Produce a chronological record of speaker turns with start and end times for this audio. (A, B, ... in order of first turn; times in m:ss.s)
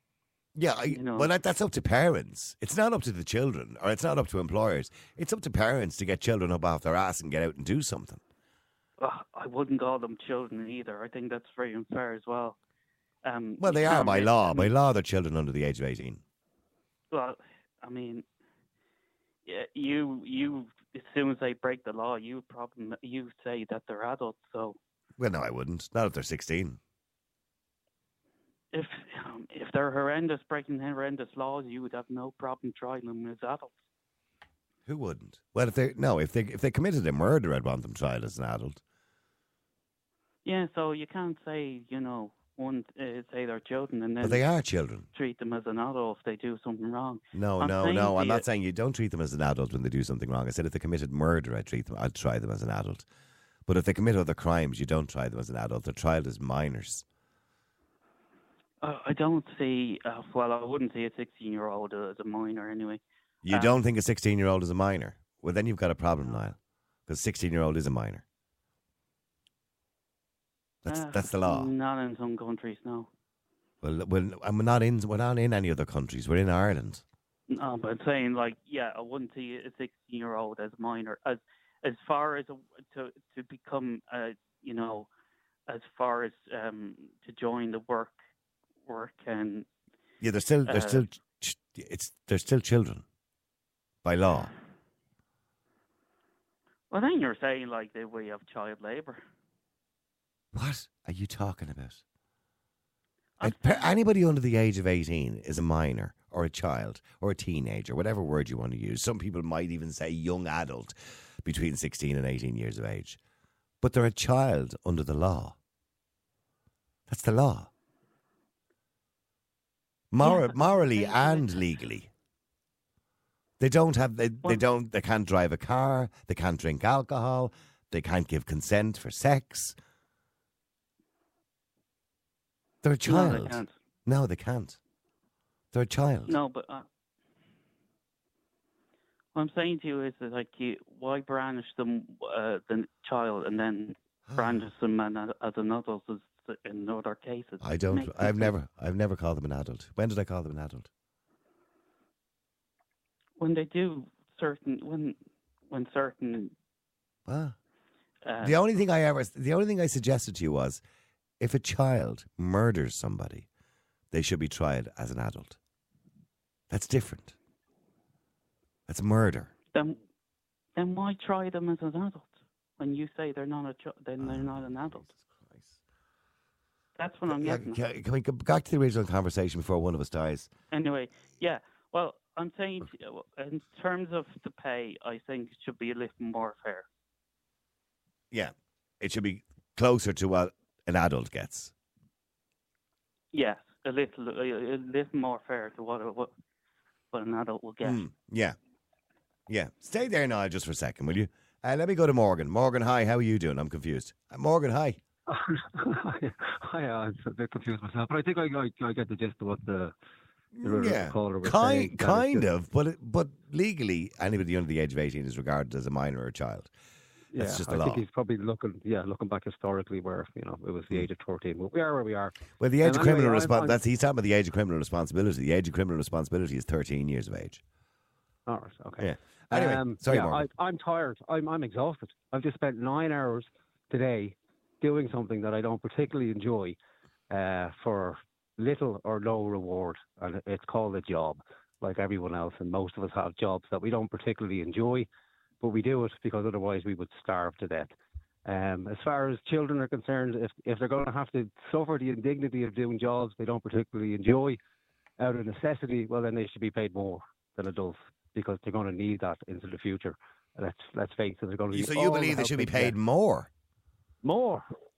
0:00.5-0:08.2 A
0:00.9-0:01.3 B
0:09.0-0:12.6 B
0:13.2-0:14.7 B
0:13.6-0:16.2 A
0:17.1-0:18.2 B
0:19.4-0:24.8 B
0:25.2-0:26.8 A
0:28.7-0:33.8 B
0:34.9-0:38.8 A
0:40.4-0:44.4 B
0:44.2-0:45.0 A
0:45.1-0:48.4 B
0:47.3-0:53.0 A
0:53.7-0:57.0 A
0:58.8-1:03.7 B
1:03.4-1:06.6 A
1:07.1-1:08.2 A
1:10.8-1:11.7 A
1:10.8-1:13.1 B
1:13.8-1:17.0 A
1:17.5-1:25.1 B
1:25.7-1:28.2 B
1:28.8-1:29.7 B
1:30.2-1:33.0 A
1:30.7-1:31.0 B
1:34.0-1:34.5 A
1:36.9-1:39.2 B
1:40.5-1:42.0 A
1:43.4-1:44.0 B
1:43.4-1:53.2 A
1:53.8-1:55.6 A
1:57.1-1:57.7 A
2:00.1-2:02.1 A
2:00.2-2:01.5 B
2:03.6-2:09.8 A
2:12.8-2:14.8 A
2:13.0-2:13.7 B
2:15.7-2:16.4 A
2:16.3-2:16.8 B
2:19.3-2:28.5 B
2:24.3-2:24.6 A
2:27.6-2:30.9 A
2:33.4-2:35.2 B
2:35.7-2:36.5 B
2:37.3-2:37.5 A
2:38.2-2:38.6 B
2:38.4-2:40.8 A
2:41.4-2:43.5 A
2:44.1-2:45.6 A
2:46.7-2:47.4 A
2:48.9-2:49.5 A
2:49.7-2:50.0 B
2:50.8-2:55.1 B
2:54.2-2:55.8 A
2:57.0-2:57.8 B
2:57.3-3:00.5 A
3:00.7-3:06.8 B
3:08.3-3:11.7 A
3:13.3-3:16.3 B
3:17.1-3:18.1 B
3:17.8-3:18.6 A
3:19.5-3:25.0 A
3:25.3-3:29.9 C
3:30.5-3:36.7 A
3:30.6-3:32.5 C
3:37.3-3:43.8 C
3:37.3-3:38.0 A
3:42.6-3:47.6 A
3:48.5-3:56.8 C
3:49.0-3:50.4 A
3:57.3-4:05.1 C
4:05.6-4:07.9 C
4:08.4-4:14.6 C
4:15.2-4:23.0 C
4:21.7-4:23.5 A
4:24.2-4:24.7 C